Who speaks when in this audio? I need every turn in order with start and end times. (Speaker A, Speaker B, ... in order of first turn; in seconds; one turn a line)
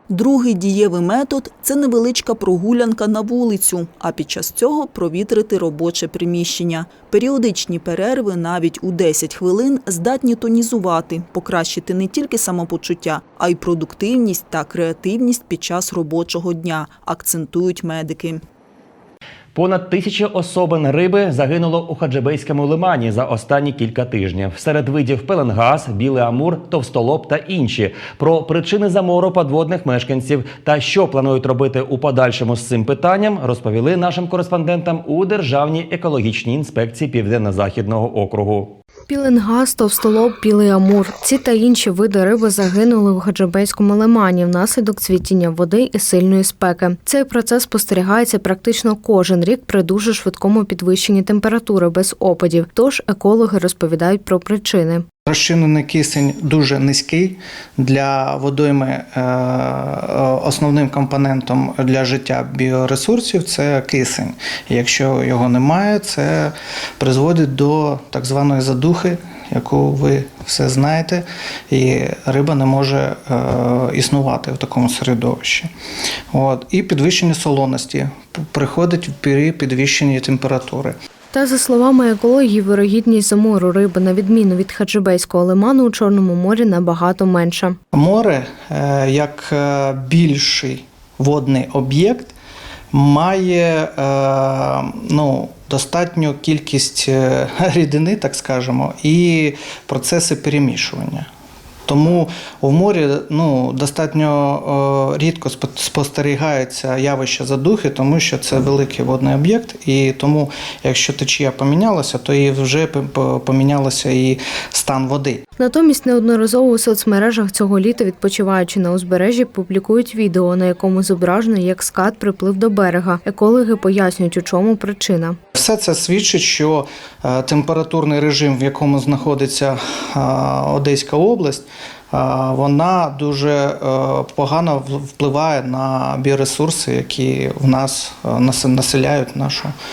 Speaker A: 0.1-18.4
Speaker B: 19.5-38.8
Speaker C: 39.1-55.0
Speaker D: 55.2-75.7
Speaker D: 76.3-81.0
Speaker C: 81.3-87.8
Speaker D: 87.9-92.3
Speaker D: 92.9-101.3
Speaker D: 101.9-115.4
Speaker C: 115.6-125.4
Speaker D: 125.5-139.7